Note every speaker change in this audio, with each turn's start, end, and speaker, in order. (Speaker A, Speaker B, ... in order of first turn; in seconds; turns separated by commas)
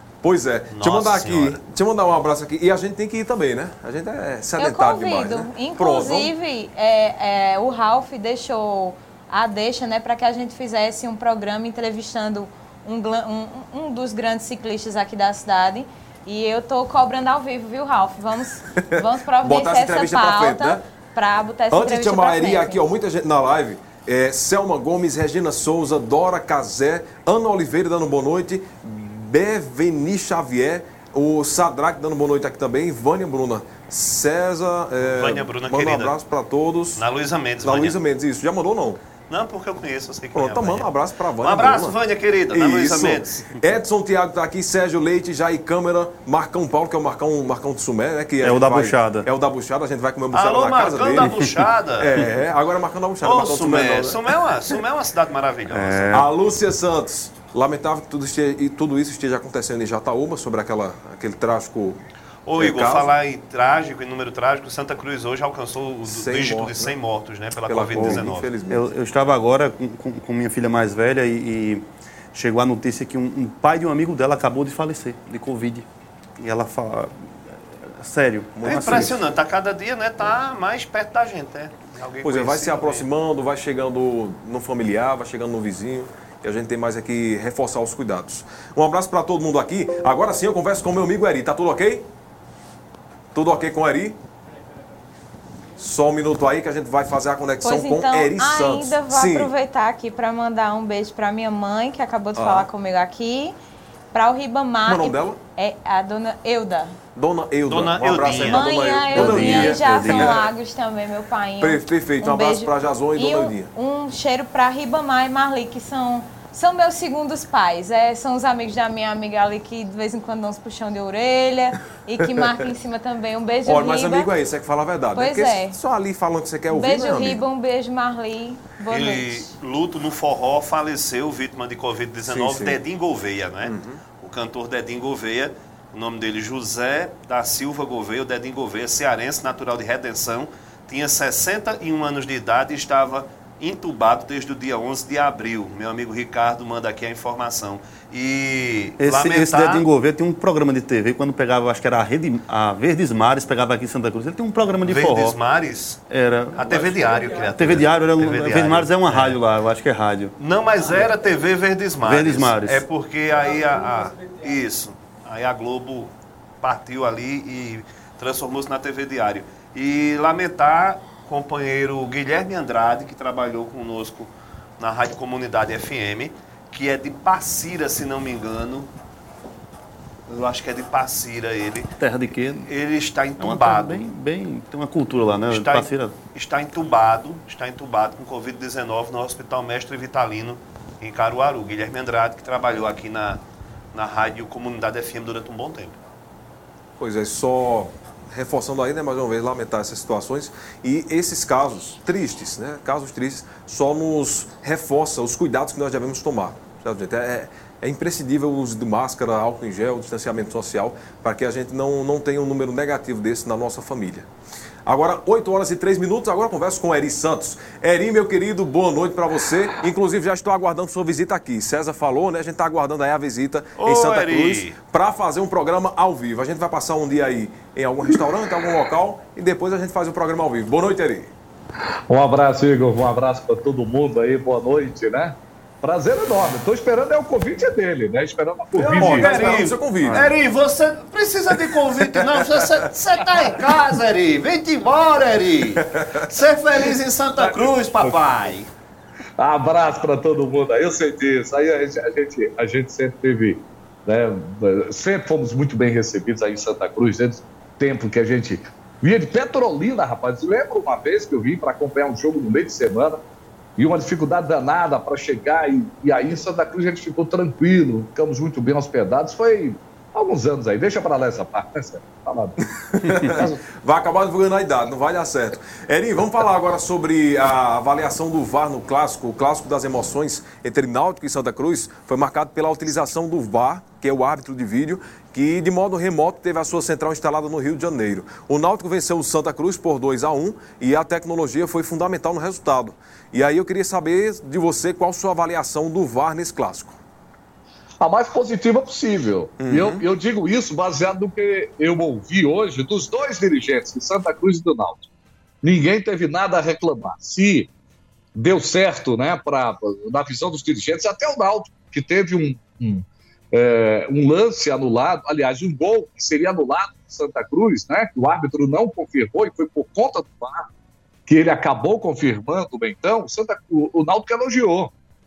Speaker A: 0.2-6.3, Speaker B: 0.7-1.6, Speaker C: 4.6-22.8, Speaker A: 18.9-20.8, Speaker A: 21.7-37.0, Speaker B: 35.0-36.1, Speaker B: 37.0-38.0, Speaker A: 37.6-39.0, Speaker B: 39.3-40.9, Speaker A: 40.3-42.0, Speaker B: 41.4-43.5, Speaker A: 42.5-51.3, Speaker D: 48.4-49.3, Speaker B: 50.3-52.2, Speaker A: 52.0-54.2, Speaker B: 53.2-56.1, Speaker D: 55.7-56.2, Speaker A: 56.1-62.0, Speaker B: 62.5-68.5, Speaker A: 62.6-63.1, Speaker A: 66.1-67.0, Speaker A: 67.7-68.9, Speaker D: 67.9-71.8, Speaker D: 72.3-75.8, Speaker D: 76.4-77.2, Speaker D: 78.0-79.1, Speaker A: 78.5-79.1, Speaker B: 78.6-83.1, Speaker A: 82.2-92.0, Speaker A: 93.3-94.2, Speaker A: 95.8-99.5, Speaker C: 97.6-103.5, Speaker A: 102.3-102.7, Speaker C: 104.1-107.0, Speaker A: 104.8-105.4, Speaker A: 107.1-110.5, Speaker B: 107.7-108.6, Speaker C: 108.4-124.3, Speaker D: 109.1-110.4, Speaker A: 111.6-113.7, Speaker A: 123.7-127.4, Speaker C: 125.1-125.8, Speaker C: 126.7-129.5, Speaker B: 128.9-149.8, Speaker A: 132.2-132.8, Speaker A: 133.6-134.0, Speaker D: 149.0-155.3, Speaker B: 154.8-156.0, Speaker D: 156.1-160.3, Speaker B: 156.5-159.4, Speaker B: 160.4-178.9, Speaker D: 162.0-162.8, Speaker B: 180.3-181.9, Speaker D: 182.0-182.7, Speaker B: 182.7-184.1, Speaker D: 183.4-186.1, Speaker B: 185.5-193.4, Speaker B: 193.9-196.0, Speaker A: 197.0-214.3, Speaker A: 214.8-231.3, Speaker B: 223.8-224.8, Speaker E: 232.1-239.5, Speaker A: 238.7-240.3, Speaker B: 238.9-248.7, Speaker A: 242.0-242.5, Speaker A: 246.0-246.2, Speaker E: 247.3-248.5, Speaker E: 249.4-263.2, Speaker E: 263.8-272.5, Speaker A: 272.9-297.0, Speaker E: 273.3-273.6, Speaker E: 298.0-305.0, Speaker A: 299.6-300.0, Speaker E: 305.6-307.7, Speaker E: 308.4-320.6, Speaker E: 321.3-324.9